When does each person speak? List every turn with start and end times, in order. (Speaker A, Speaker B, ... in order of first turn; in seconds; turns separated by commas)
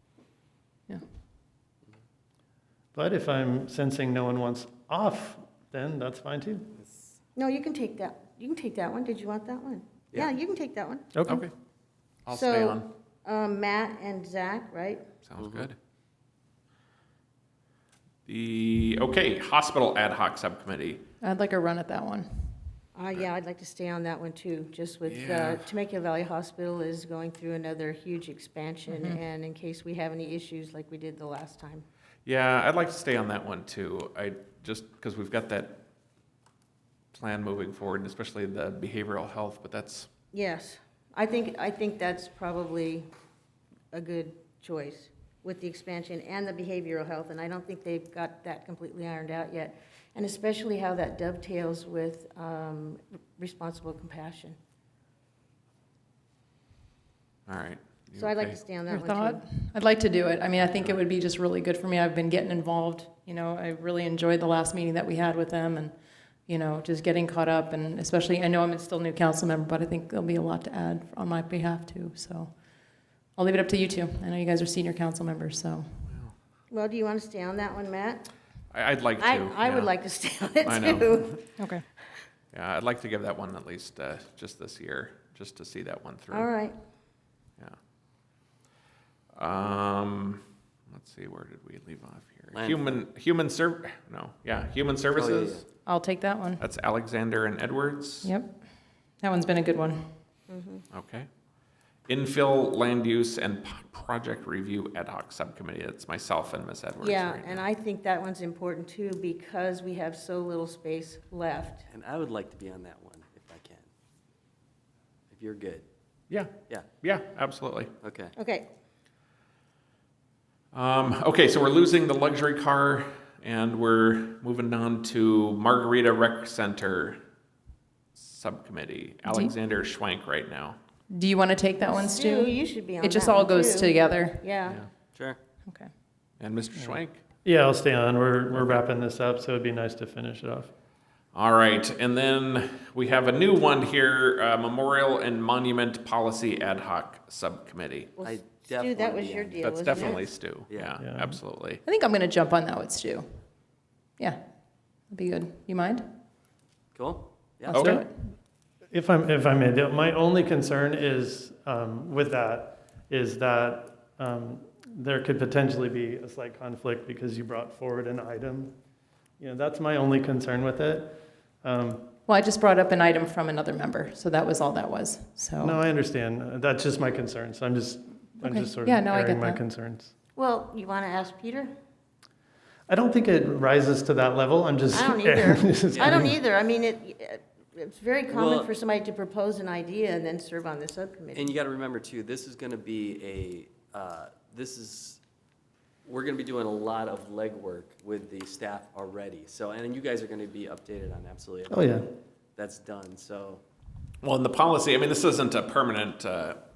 Speaker A: 2.9-6.7, Speaker B: 7.3-11.1, Speaker A: 11.1-11.4, Speaker C: 11.2-11.5, Speaker C: 12.2-12.9, Speaker B: 12.3-15.0, Speaker C: 15.2-15.8, Speaker D: 15.4-15.7, Speaker C: 18.2-21.0, Speaker E: 21.2-22.5, Speaker B: 22.9-31.9, Speaker C: 25.1-25.6, Speaker E: 28.9-29.2, Speaker C: 32.2-35.8, Speaker C: 37.1-40.1, Speaker B: 40.3-43.1, Speaker B: 43.9-54.6, Speaker C: 57.5-58.6, Speaker B: 58.1-59.4, Speaker E: 58.9-72.5, Speaker C: 60.7-61.0, Speaker E: 73.3-76.0, Speaker C: 76.1-76.3, Speaker B: 76.7-78.3, Speaker C: 78.7-80.0, Speaker B: 79.2-81.5, Speaker C: 80.6-81.4, Speaker E: 81.6-81.8, Speaker C: 82.5-86.5, Speaker B: 86.3-86.8, Speaker C: 89.3-95.6, Speaker D: 92.5-93.0, Speaker D: 95.1-95.6, Speaker E: 95.8-96.6, Speaker C: 96.6-98.3, Speaker E: 98.2-98.7, Speaker E: 99.2-100.1, Speaker B: 100.5-100.8, Speaker C: 100.9-101.3, Speaker C: 102.1-107.6, Speaker B: 107.0-111.8, Speaker D: 111.9-113.8, Speaker D: 115.3-115.9, Speaker C: 116.3-117.9, Speaker D: 118.0-118.3, Speaker B: 118.3-118.7, Speaker C: 120.7-127.2, Speaker C: 128.2-130.8, Speaker E: 129.2-129.5, Speaker E: 131.1-134.5, Speaker B: 131.9-134.8, Speaker C: 136.4-137.2, Speaker A: 136.8-140.7, Speaker C: 141.3-148.1, Speaker B: 148.2-150.2, Speaker D: 148.2-150.9, Speaker C: 149.6-151.8, Speaker A: 151.0-151.4, Speaker E: 151.8-153.3, Speaker E: 155.1-156.0, Speaker D: 156.9-157.9, Speaker E: 157.7-158.1, Speaker A: 157.8-158.1, Speaker A: 158.9-168.7, Speaker A: 169.4-172.1, Speaker E: 172.3-175.8, Speaker A: 175.6-180.1, Speaker E: 178.4-179.6, Speaker B: 180.3-181.7, Speaker A: 182.9-186.4, Speaker B: 184.9-191.5, Speaker D: 185.9-186.2, Speaker D: 188.3-188.7, Speaker D: 191.3-195.2, Speaker D: 196.0-202.0, Speaker A: 201.7-202.1, Speaker D: 202.6-203.6, Speaker C: 204.2-206.6